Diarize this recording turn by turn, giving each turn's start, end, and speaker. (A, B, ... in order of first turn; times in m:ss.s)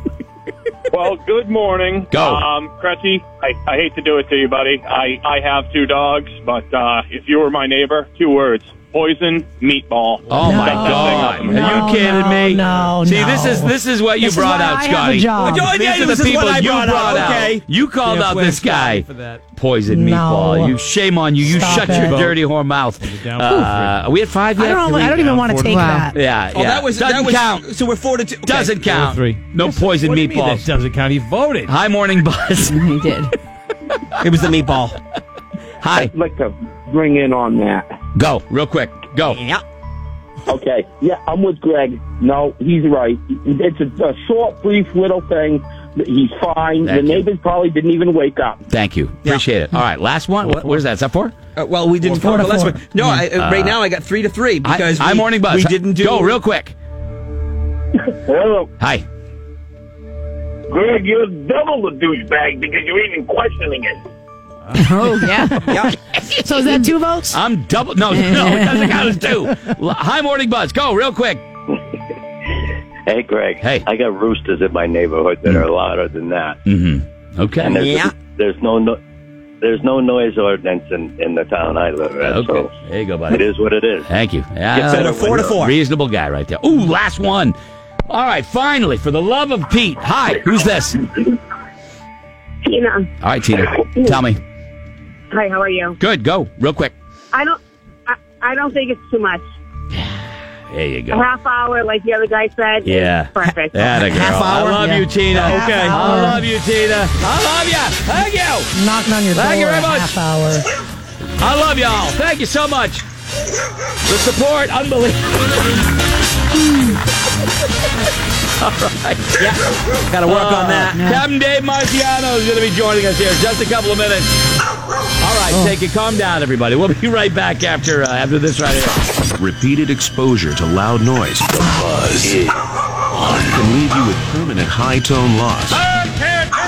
0:00.9-0:11.9 A
0:02.1-0:02.5 B
0:10.3-0:10.6 C
0:10.3-0:25.2 B
0:10.4-0:15.8 D
0:12.5-0:12.9 C
0:15.4-0:17.6 E
0:17.0-0:17.5 C
0:18.0-0:19.4 C
0:19.9-0:20.8 D
0:21.4-0:22.5 C
0:21.4-0:22.2 D
0:23.0-0:24.1 C
0:24.6-0:26.2 D
0:25.0-0:26.0 C
0:25.6-0:26.1 F
0:26.1-0:27.7 B
0:26.5-0:28.8 E
0:28.4-0:30.7 B
0:28.8-0:31.8 C
0:31.7-0:32.8 B
0:32.7-0:33.3 F
0:34.2-0:35.0 E
0:35.8-0:36.1 B
0:36.1-0:37.8 G
0:38.2-0:39.4 B
0:39.3-0:39.6 E
0:40.5-0:48.6 G
0:46.8-0:47.3 B
0:48.7-0:51.3 B
0:50.5-0:50.7 C
0:51.6-0:56.4 E
0:52.1-0:52.3 C
0:52.2-0:52.8 D
0:53.1-0:53.8 B
0:54.6-0:56.8 B
0:58.8-0:59.1 B
1:02.4-1:03.5 G
1:04.6-1:05.0 C
1:04.7-1:05.9 F
1:05.7-1:05.9 E
1:06.4-1:07.4 D
1:06.6-1:06.9 F
1:07.3-1:11.4 B
1:08.1-1:09.0 F
1:13.1-1:16.6 H
1:13.6-1:13.9 B
1:16.6-1:17.8 B
1:17.6-1:19.0 H
1:17.8-1:18.1 E
1:19.6-1:22.7 H
1:22.2-1:23.5 B
1:23.3-1:24.1 H
1:24.0-1:27.6 B
1:24.7-1:25.6 H
1:24.8-1:25.8 E
1:28.1-1:31.3 B
1:32.6-1:33.1 I
1:33.2-1:34.4 B
1:33.6-1:34.2 I
1:35.3-1:36.0 I
1:36.0-1:36.9 B
1:37.3-1:39.4 I
1:40.7-1:41.3 B
1:41.1-1:44.2 I
1:42.8-1:48.7 B
1:44.1-1:45.0 E
1:45.2-1:46.5 D
1:48.7-1:50.6 D
1:49.3-1:50.2 B
1:51.4-1:53.0 B
1:54.1-1:55.6 B
1:58.6-1:59.6 B
1:59.4-2:01.0 E
2:00.2-2:04.5 B
2:00.9-2:01.2 F
2:05.2-2:09.1 B
2:09.4-2:12.6 J
2:13.1-2:16.2 J